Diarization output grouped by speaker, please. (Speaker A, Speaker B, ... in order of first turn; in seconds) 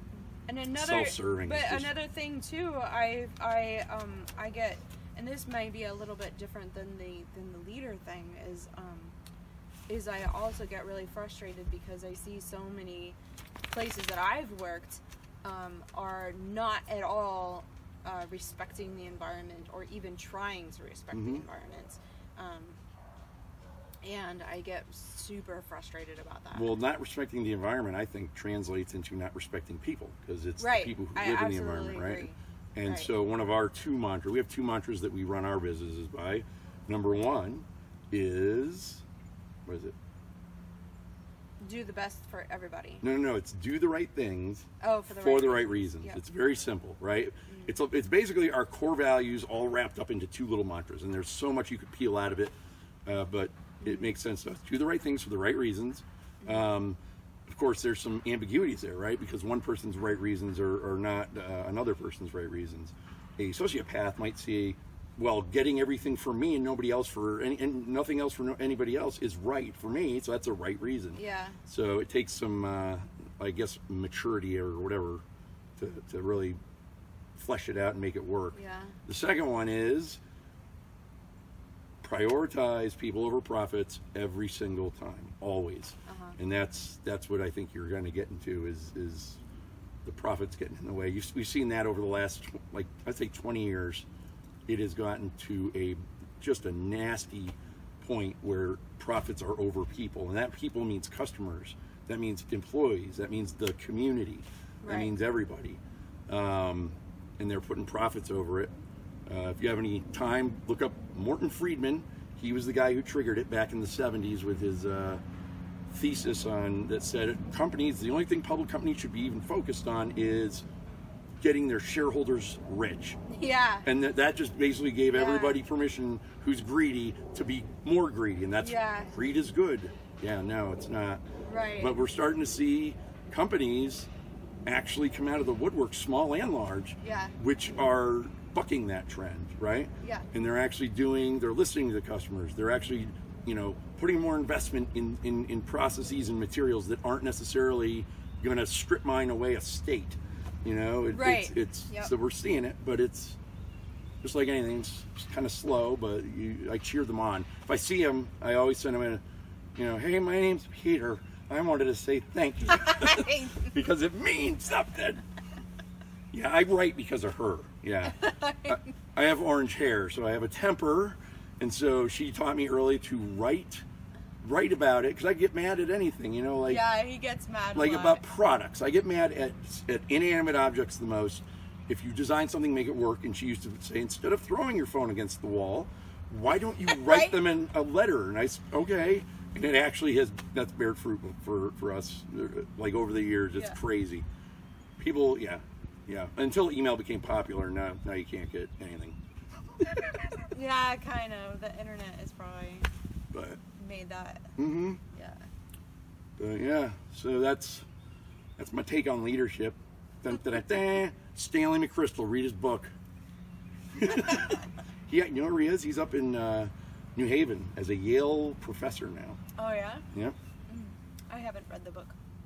Speaker A: 0.5-9.2, 9.9-13.2, 13.7-22.8, 24.0-26.7, 30.6-33.1, 41.6-43.0, 44.8-46.2, 47.5-47.7, 53.8-54.1, 56.4-56.7, 71.2-71.6, 78.5-79.0, 86.1-86.4, 104.8-105.1, 123.3-123.9, 125.1-125.6, 128.6-129.1, 131.4-131.9, 137.0-137.3, 140.0-140.3, 151.1-152.1, 162.8-163.7, 168.0-168.9, 176.7-178.2, 186.9-187.4, 200.5-202.9, 203.8-204.5, 205.1-205.5, 219.6-220.1, 220.7-222.2
Speaker B: 0.7-1.9, 21.1-21.4, 26.5-39.0, 39.7-40.0, 43.0-52.5, 53.1-75.2, 75.8-76.6, 77.4-80.2, 82.0-89.4, 90.0-94.1, 94.7-108.7, 109.3-115.2, 115.9-120.7, 121.4-123.2, 123.8-131.2, 131.8-134.1, 134.7-153.4, 154.2-159.2, 159.8-165.2, 166.3-173.8, 174.4-176.9, 177.8-194.2, 195.0-199.2, 199.8-200.5, 203.3-203.6, 204.6-205.0, 206.4-207.8, 208.6-212.9, 213.9-219.4